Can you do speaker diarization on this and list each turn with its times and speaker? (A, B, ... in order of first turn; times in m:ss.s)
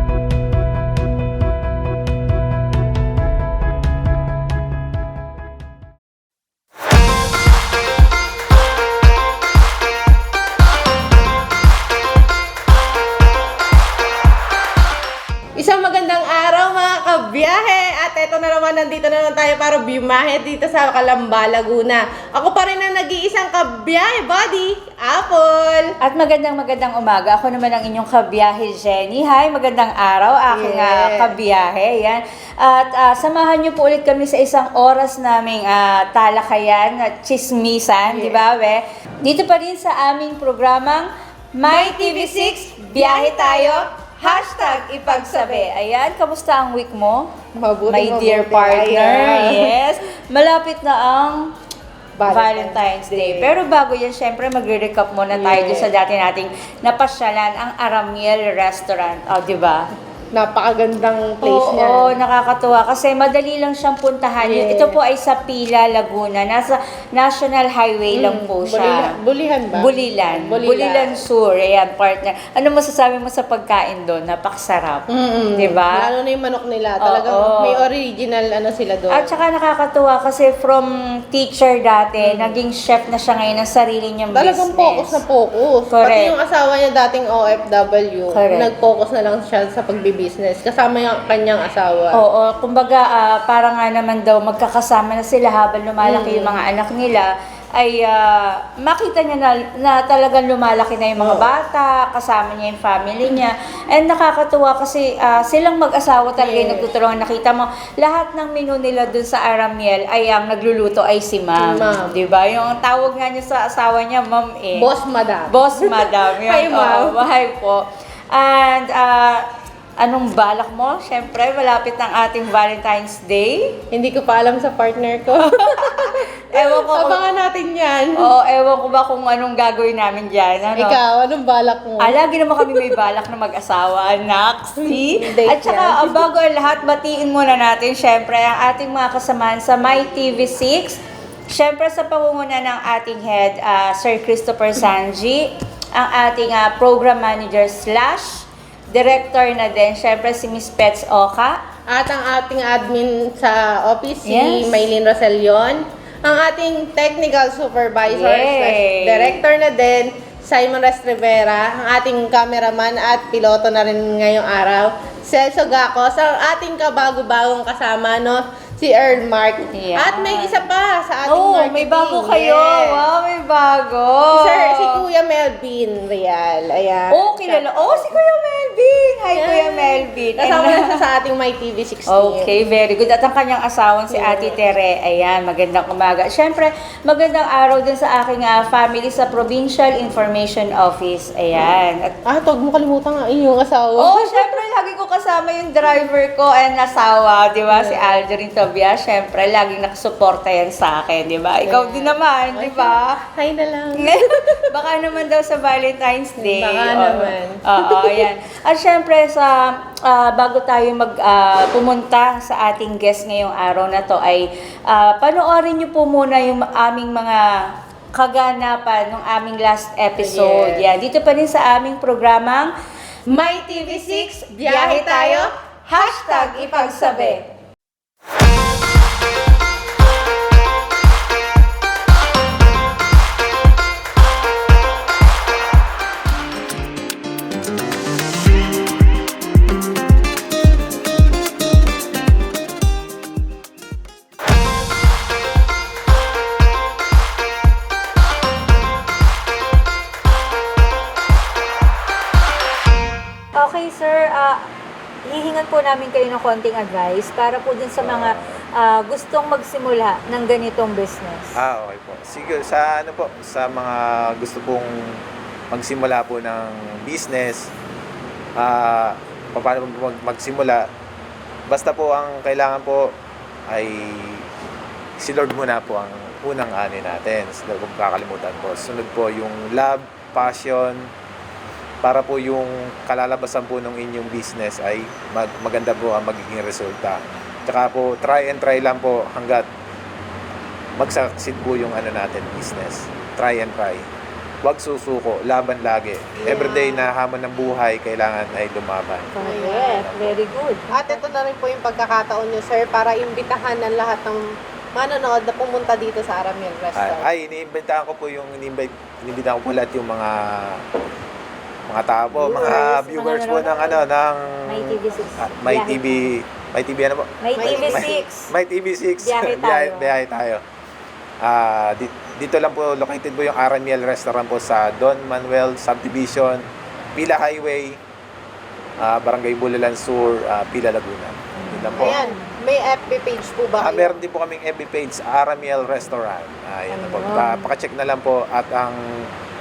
0:15.6-0:25.9 A
0:26.0-0:47.3 B
0:30.5-0:31.4 A
0:38.1-0:38.4 A
0:41.7-0:45.7 A
0:47.6-0:49.7 A
0:47.9-0:51.5 B
0:52.2-0:53.5 A
0:52.3-0:59.9 B
0:55.3-0:55.9 A
1:00.3-1:02.2 A
1:01.4-1:09.1 B
1:04.4-1:05.0 A
1:08.1-1:11.2 A
1:09.7-1:16.1 B
1:15.1-1:19.4 A
1:17.0-1:17.8 B
1:19.1-1:25.2 B
1:22.2-1:22.6 A
1:24.3-1:32.2 A
1:25.9-1:26.3 B
1:28.3-1:28.7 B
1:32.1-1:54.9 B
1:36.0-1:36.6 A
1:41.2-1:41.5 A
1:46.4-1:46.9 A
1:51.6-1:52.2 A
1:54.8-1:57.2 A
1:55.5-1:59.5 B
2:00.0-2:03.7 B
2:03.9-2:08.3 A
2:05.5-2:07.2 B
2:08.2-2:11.0 B
2:10.7-2:12.9 A
2:12.0-2:21.0 B
2:14.8-2:16.2 A
2:21.5-2:31.6 B
2:31.9-2:53.0 A
2:34.2-2:34.9 B
2:38.1-2:39.4 B
2:49.7-2:50.7 B
2:51.3-2:55.0 B
2:54.4-2:58.2 A
2:57.1-3:01.0 B
2:59.3-3:02.5 A
3:02.1-3:12.1 B
3:04.1-3:04.6 A
3:12.3-3:14.6 A
3:14.0-3:23.1 B
3:17.7-3:18.2 A
3:21.6-3:24.7 A
3:24.0-3:37.6 B
3:26.4-3:28.3 A
3:38.2-3:42.7 B
3:40.2-3:40.9 A
3:43.3-3:47.4 B
3:43.3-3:47.4 A
4:13.6-4:14.6 B
4:15.3-4:21.6 B
4:18.0-4:18.5 C
4:21.6-4:24.9 C
4:25.7-4:27.7 C
4:28.6-4:30.8 C
4:31.7-4:33.1 C
4:33.7-4:34.5 C
4:35.2-4:41.1 C
4:42.0-4:49.7 C
4:51.0-4:54.0 C
4:54.6-5:00.3 C
4:56.4-4:57.1 A
4:59.4-5:01.2 B
4:59.4-5:00.0 A
5:00.9-5:04.4 A
5:05.0-5:07.3 A
5:07.0-5:10.8 C
5:11.9-5:20.6 C
5:12.5-5:14.0 B
5:12.5-5:12.8 A
5:14.7-5:16.3 B
5:17.4-5:18.5 B
5:17.6-5:18.2 A
5:19.2-5:20.1 B
5:21.4-5:26.6 C
5:27.2-5:28.0 C
5:29.0-5:32.2 C
5:31.6-5:32.5 B
5:31.9-5:34.2 A
5:33.8-5:39.2 C
5:36.9-5:37.6 B